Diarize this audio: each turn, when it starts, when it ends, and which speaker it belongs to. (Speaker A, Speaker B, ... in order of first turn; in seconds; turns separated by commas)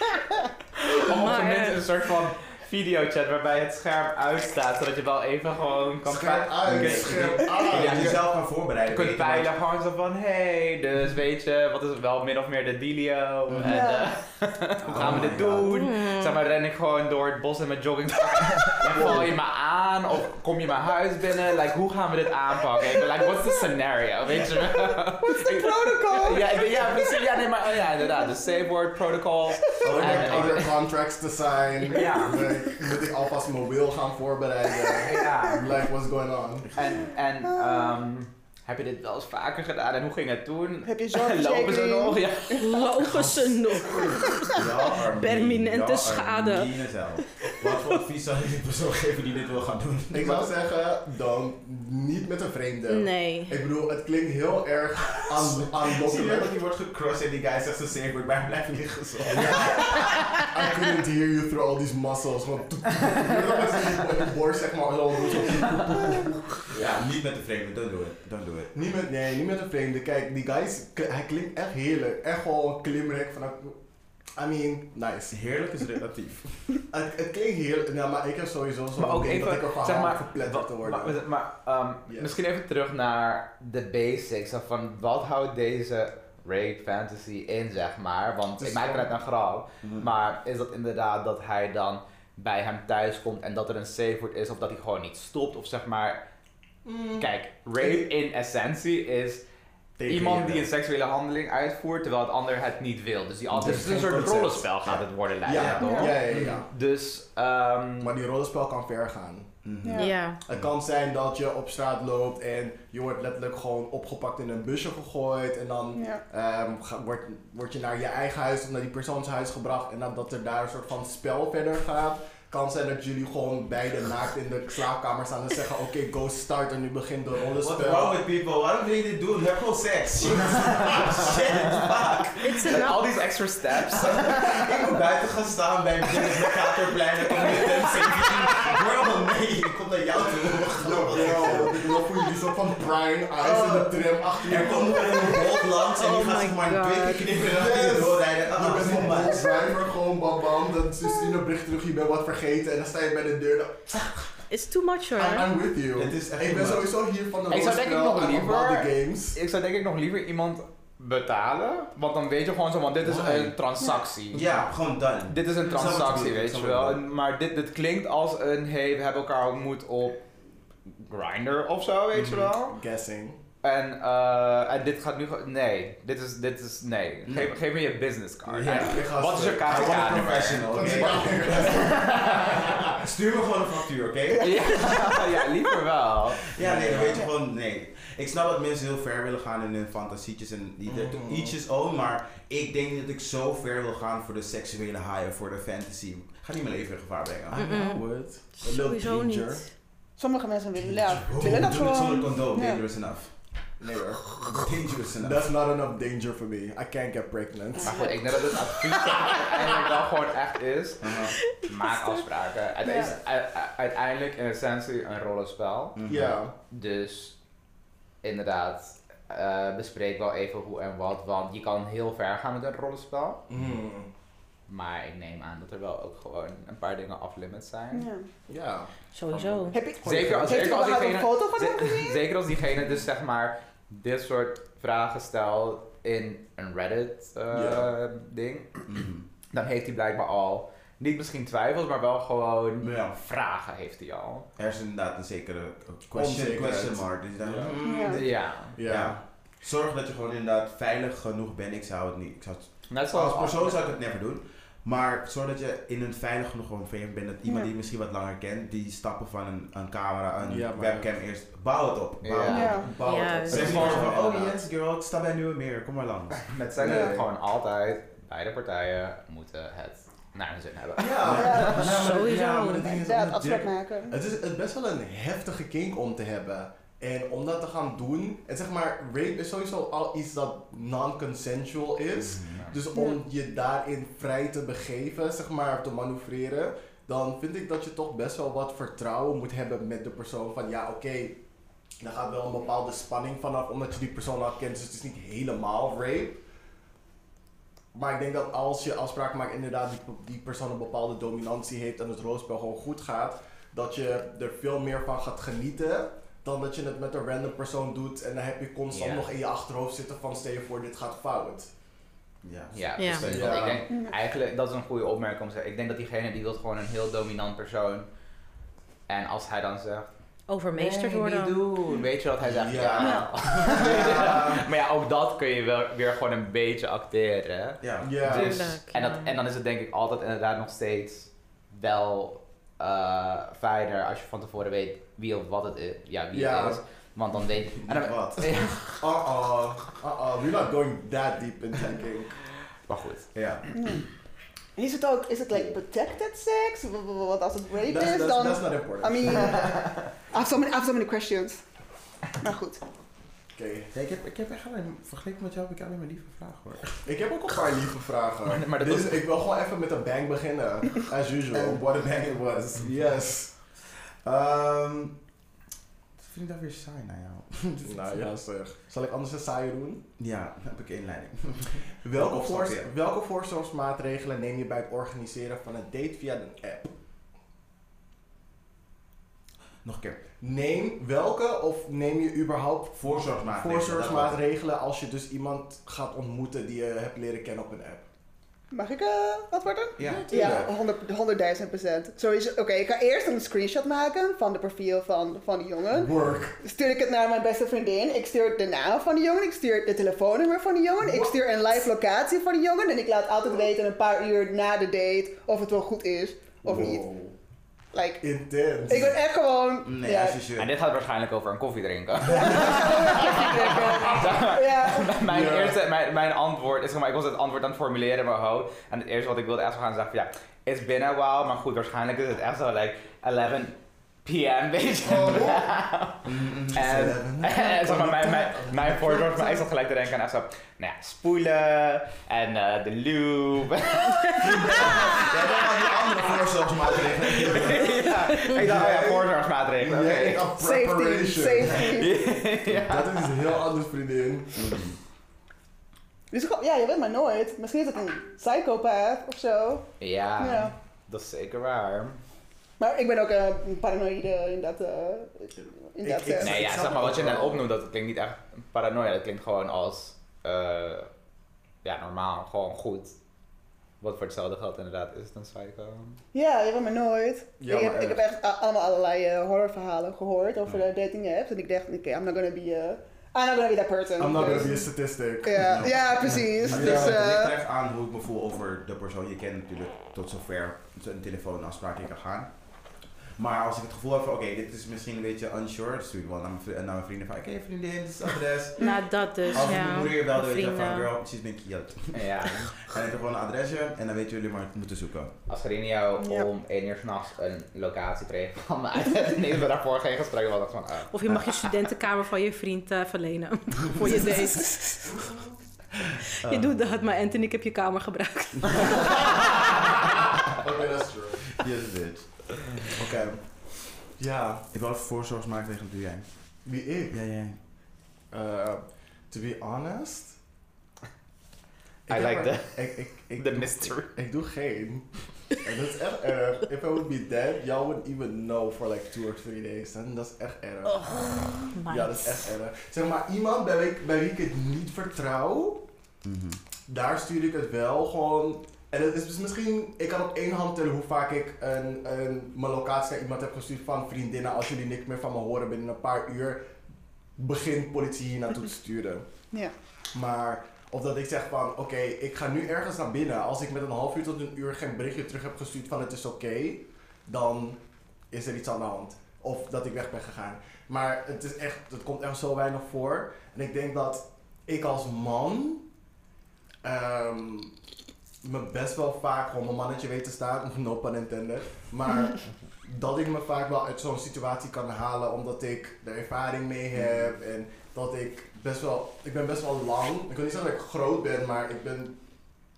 Speaker A: 0.8-30.8, Speaker B: 1.0-1.8, Speaker C: 6.0-8.2, Speaker D: 6.6-9.5, Speaker E: 13.6-14.1, Speaker D: 14.8-15.8, Speaker B: 15.6-16.4, Speaker D: 18.8-19.3, Speaker C: 18.9-19.2, Speaker E: 25.2-27.2, Speaker D: 29.8-30.7, Speaker C: 29.8-36.7, Speaker A: 31.8-32.5, Speaker E: 32.2-32.7, Speaker E: 34.9-35.2, Speaker A: 35.0-35.7, Speaker A: 36.7-42.8, Speaker E: 37.5-37.8, Speaker E: 40.8-42.8, Speaker B: 42.6-48.0, Speaker C: 43.1-44.2, Speaker E: 44.3-44.5, Speaker D: 44.5-50.5, Speaker C: 50.1-56.6, Speaker B: 52.9-53.5, Speaker D: 55.3-60.4, Speaker C: 59.2-66.9, Speaker D: 66.7-68.7, Speaker C: 68.7-73.8, Speaker C: 74.3-75.4, Speaker D: 75.3-76.7, Speaker C: 76.9-81.2, Speaker A: 79.0-96.2, Speaker C: 82.1-82.3, Speaker C: 88.6-89.1, Speaker D: 89.8-90.1, Speaker C: 96.8-97.3, Speaker A: 97.2-99.4, Speaker C: 97.8-98.1, Speaker D: 100.0-100.7, Speaker A: 100.1-108.1, Speaker D: 103.5-105.0, Speaker C: 103.6-104.3, Speaker C: 105.4-106.7, Speaker D: 105.5-106.6, Speaker E: 105.8-106.2, Speaker C: 108.0-109.6, Speaker D: 109.6-110.7, Speaker E: 109.8-110.1, Speaker B: 109.9-110.4, Speaker C: 110.4-128.2, Speaker E: 115.9-116.2, Speaker D: 127.6-132.8, Speaker B: 132.4-133.1, Speaker A: 132.6-134.8, Speaker D: 133.8-142.0, Speaker A: 137.2-138.6, Speaker C: 140.7-145.5, Speaker E: 143.4-145.6, Speaker D: 144.4-149.7, Speaker B: 145.9-147.3, Speaker C: 147.4-154.4, Speaker B: 154.5-155.5, Speaker C: 155.1-159.4, Speaker D: 155.9-156.9, Speaker A: 157.5-164.6, Speaker C: 163.0-163.6, Speaker D: 164.3-167.0, Speaker A: 165.3-170.2, Speaker A: 171.0-172.8, Speaker D: 172.1-172.5, Speaker C: 172.7-173.4, Speaker A: 173.6-182.8, Speaker D: 177.3-177.5, Speaker C: 178.5-182.4, Speaker D: 178.6-178.9, Speaker D: 179.6-185.1, Speaker A: 184.3-186.5, Speaker D: 186.5-197.7, Speaker C: 186.6-187.2, Speaker C: 190.8-191.5, Speaker C: 197.5-199.6, Speaker B: 197.5-199.6, Speaker E: 200.2-202.8, Speaker D: 201.0-203.3, Speaker C: 201.4-201.7, Speaker C: 203.8-208.1, Speaker D: 204.4-205.5, Speaker A: 207.8-216.0, Speaker D: 211.0-211.3, Speaker E: 212.8-213.1, Speaker D: 215.9-216.4, Speaker C: 216.1-216.5, Speaker A: 216.7-217.3, Speaker A: 218.2-223.4, Speaker C: 223.5-224.1, Speaker A: 224.7-228.1, Speaker E: 227.9-228.3, Speaker C: 228.5-228.9, Speaker B: 229.1-229.8, Speaker A: 229.3-238.8, Speaker E: 229.7-232.2, Speaker C: 230.0-230.7, Speaker C: 237.5-237.9, Speaker D: 238.9-239.2, Speaker A: 239.5-244.5, Speaker D: 242.8-243.2, Speaker D: 244.6-267.0, Speaker C: 246.1-247.8, Speaker E: 247.8-248.2, Speaker A: 248.0-248.8, Speaker C: 248.7-249.2, Speaker A: 252.9-253.8, Speaker C: 260.4-261.1, Speaker A: 262.2-262.9, Speaker E: 262.4-262.9, Speaker C: 262.8-264.6, Speaker B: 263.0-263.9, Speaker A: 263.5-264.2, Speaker A: 266.4-271.9, Speaker C: 266.8-267.2, Speaker E: 266.9-267.2, Speaker C: 271.0-291.4, Speaker D: 271.2-271.8, Speaker E: 271.2-272.2, Speaker B: 271.8-273.0, Speaker E: 272.9-274.2, Speaker A: 282.3-282.8, Speaker E: 282.9-283.2, Speaker C: 292.0-296.4, Speaker C: 297.9-311.7, Speaker A: 308.9-309.2, Speaker D: 312.4-313.8, Speaker A: 312.7-318.1, Speaker B: 313.0-313.3, Speaker C: 313.2-313.8, Speaker E: 313.9-314.1, Speaker A: 319.1-320.1, Speaker B: 320.5-321.6, Speaker A: 320.7-339.0, Speaker D: 322.4-324.6, Speaker E: 323.0-323.3, Speaker D: 327.8-328.2, Speaker C: 328.0-328.7, Speaker B: 328.3-329.3, Speaker C: 336.3-336.8, Speaker D: 337.7-338.6, Speaker C: 339.0-342.4, Speaker A: 342.9-343.3, Speaker D: 343.3-343.6, Speaker E: 343.7-344.0, Speaker E: 344.8-351.6, Speaker C: 347.8-349.7, Speaker E: 352.4-352.8, Speaker C: 353.5-353.9, Speaker D: 353.9-357.0, Speaker C: 357.0-361.9, Speaker A: 358.4-359.2, Speaker D: 361.5-362.9, Speaker C: 362.8-363.5, Speaker D: 363.9-365.2, Speaker D: 366.2-368.2, Speaker C: 367.8-370.0, Speaker D: 370.2-372.9, Speaker C: 372.0-376.9, Speaker D: 379.8-380.2, Speaker C: 380.4-388.0, Speaker D: 382.9-384.4, Speaker E: 388.7-407.0, Speaker D: 390.0-390.7, Speaker C: 390.1-390.6, Speaker C: 395.9-396.6, Speaker C: 401.0-401.3, Speaker C: 406.6-407.3, Speaker E: 407.9-408.2, Speaker C: 408.2-409.1, Speaker E: 408.9-410.4, Speaker D: 409.8-410.7, Speaker A: 410.6-435.3, Speaker E: 412.3-415.1, Speaker C: 415.2-415.8, Speaker C: 425.0-425.7, Speaker D: 426.2-427.0, Speaker C: 426.7-429.6, Speaker D: 434.4-438.1, Speaker C: 434.4-434.9, Speaker A: 437.5-440.5, Speaker C: 438.4-442.1, Speaker E: 440.5-442.2, Speaker A: 441.8-443.3, Speaker C: 442.7-444.7, Speaker D: 444.5-445.0, Speaker E: 446.3-450.7, Speaker A: 450.0-452.2, Speaker E: 452.8-456.6, Speaker C: 455.6-457.6, Speaker A: 456.4-461.1, Speaker A: 461.8-463.2, Speaker A: 464.0-466.2, Speaker E: 466.3-474.9, Speaker C: 467.6-468.2, Speaker C: 474.2-477.2, Speaker E: 475.4-477.6, Speaker D: 475.6-482.5, Speaker D: 483.4-488.8, Speaker B: 488.8-491.1, Speaker D: 489.5-495.3, Speaker A: 492.1-492.7, Speaker A: 495.5-501.1, Speaker E: 496.2-496.5, Speaker B: 501.1-505.3, Speaker D: 506.4-506.8, Speaker B: 506.4-509.5, Speaker C: 509.2-511.6, Speaker D: 511.6-513.1, Speaker C: 512.9-514.6, Speaker D: 514.7-517.6, Speaker C: 516.6-517.2, Speaker C: 518.3-520.4, Speaker C: 522.1-535.8, Speaker A: 522.1-524.1, Speaker B: 530.9-532.5, Speaker D: 536.2-536.6, Speaker C: 536.9-546.7, Speaker C: 547.4-549.4, Speaker C: 550.1-565.8, Speaker C: 566.8-567.7, Speaker C: 568.4-582.1